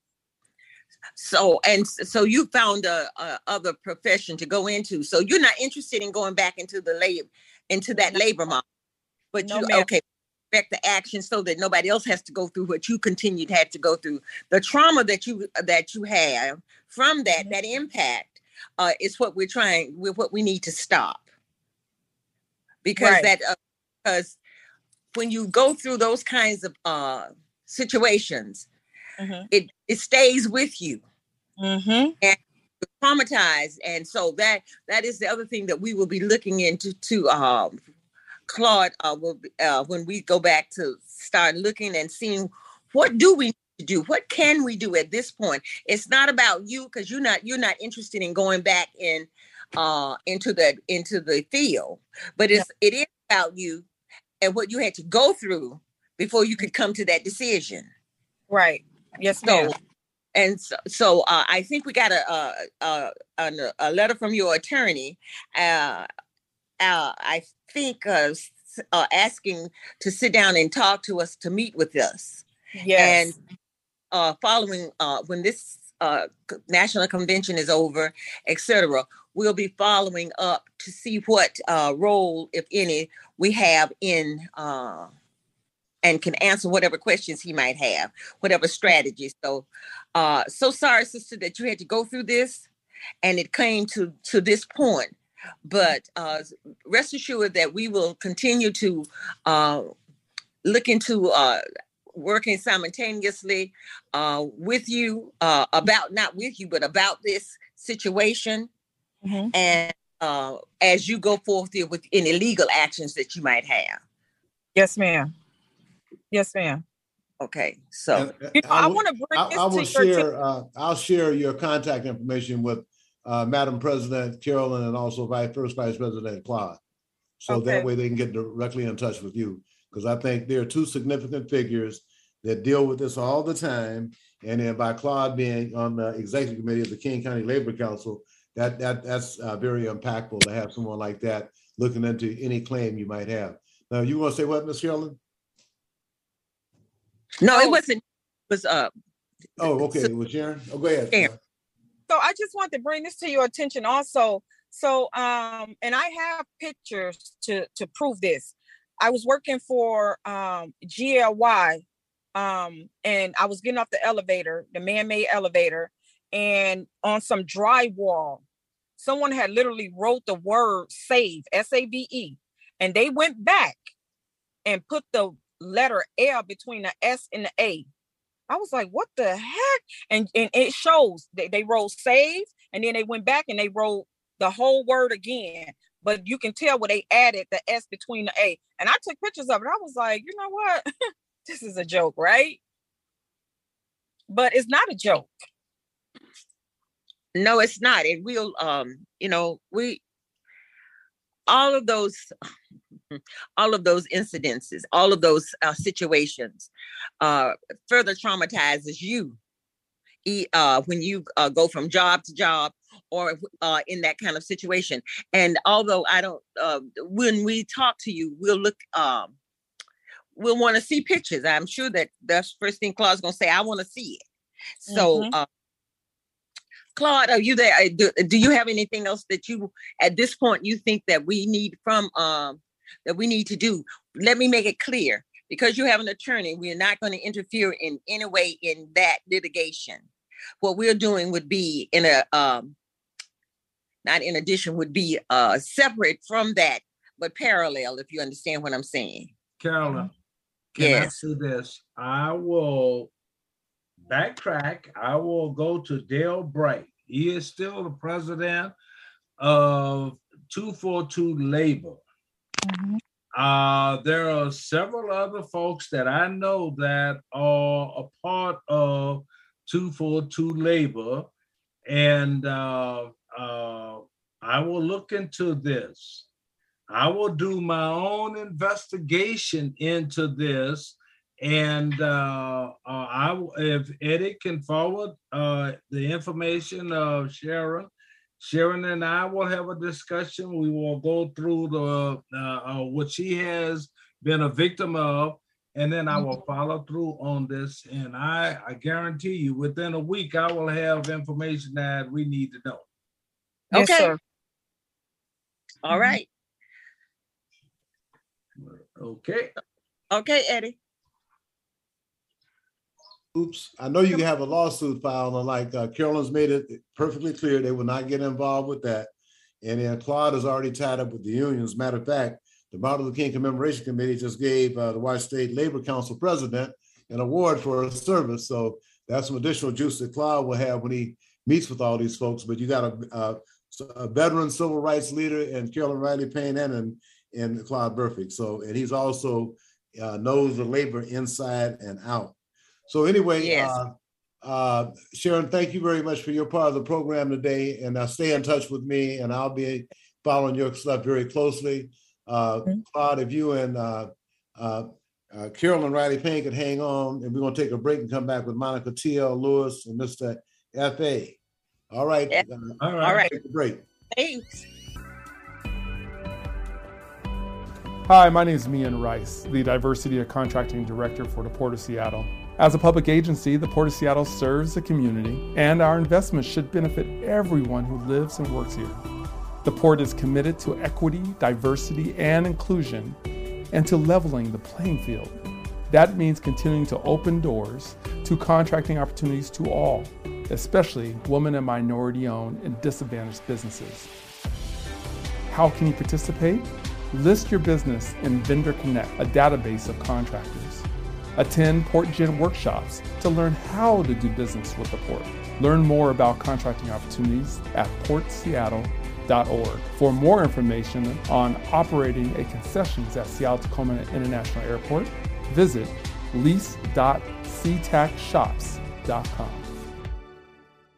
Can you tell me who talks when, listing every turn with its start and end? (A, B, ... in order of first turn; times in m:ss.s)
0:01.2-0:08.6 A
0:07.9-0:08.2 B
0:09.3-0:21.2 A
0:09.4-0:09.9 B
0:22.8-0:24.4 A
0:23.0-0:23.3 B
0:25.1-0:28.6 A
0:29.2-0:29.5 B
0:29.5-0:31.0 A
0:31.6-0:32.1 B
0:33.0-0:37.8 A
0:38.5-0:53.9 A
0:54.4-0:57.9 A
0:58.5-0:59.7 B
0:59.4-0:59.7 A
1:00.4-1:06.1 A
1:06.8-1:12.4 A
1:12.7-1:13.3 B
1:13.0-1:13.4 A
1:14.1-1:25.1 A
1:26.0-1:32.7 A
1:33.2-1:39.9 A
1:40.6-1:41.6 A
1:42.1-1:48.7 A
1:49.2-1:49.5 B
1:49.5-1:54.0 A
1:54.8-1:55.3 B
1:56.3-1:56.8 B
1:57.4-1:58.3 A
1:58.1-2:06.8 C
1:58.5-2:00.2 B
2:07.4-2:25.2 C
2:07.5-2:07.9 B
2:27.4-2:28.9 A
2:27.5-2:27.8 B
2:29.6-2:31.4 C
2:29.8-2:30.1 A
2:32.1-2:41.8 B
2:42.4-2:48.4 B
2:49.0-2:53.8 B
2:54.6-2:57.9 B
2:58.5-3:10.9 B
3:11.5-3:12.6 B
3:14.3-3:15.3 B
3:17.4-3:20.0 A
3:21.5-3:22.3 A
3:23.6-3:26.7 A
3:27.2-3:29.4 A
3:30.2-3:39.3 A
3:40.4-3:44.2 A
3:44.9-3:45.5 A
3:44.9-3:45.3 B
3:47.0-4:00.1 A
4:00.6-4:02.8 A
4:04.0-4:09.3 A
4:09.6-4:10.1 D
4:10.7-4:13.1 D
4:10.8-4:11.1 A
4:14.1-4:18.7 D
4:19.4-4:22.0 D
4:22.6-4:23.0 B
4:23.3-4:31.3 D
4:31.9-4:36.2 D
4:36.9-5:02.8 D
5:03.7-5:04.1 A
5:03.7-5:04.2 B
5:05.8-5:06.3 A
5:08.6-5:09.5 D
5:10.1-5:10.8 A
5:13.3-5:19.1 C
5:19.6-5:42.4 C
5:42.9-6:01.4 C
5:43.4-5:43.8 A
6:01.9-6:03.8 C
6:02.8-6:03.2 D
6:03.0-6:03.3 A
6:04.1-6:04.6 A
6:08.1-6:19.0 E
6:19.6-6:23.2 E
6:23.7-6:25.4 E
6:25.9-6:34.1 E
6:35.5-6:40.9 E
6:41.4-6:59.7 E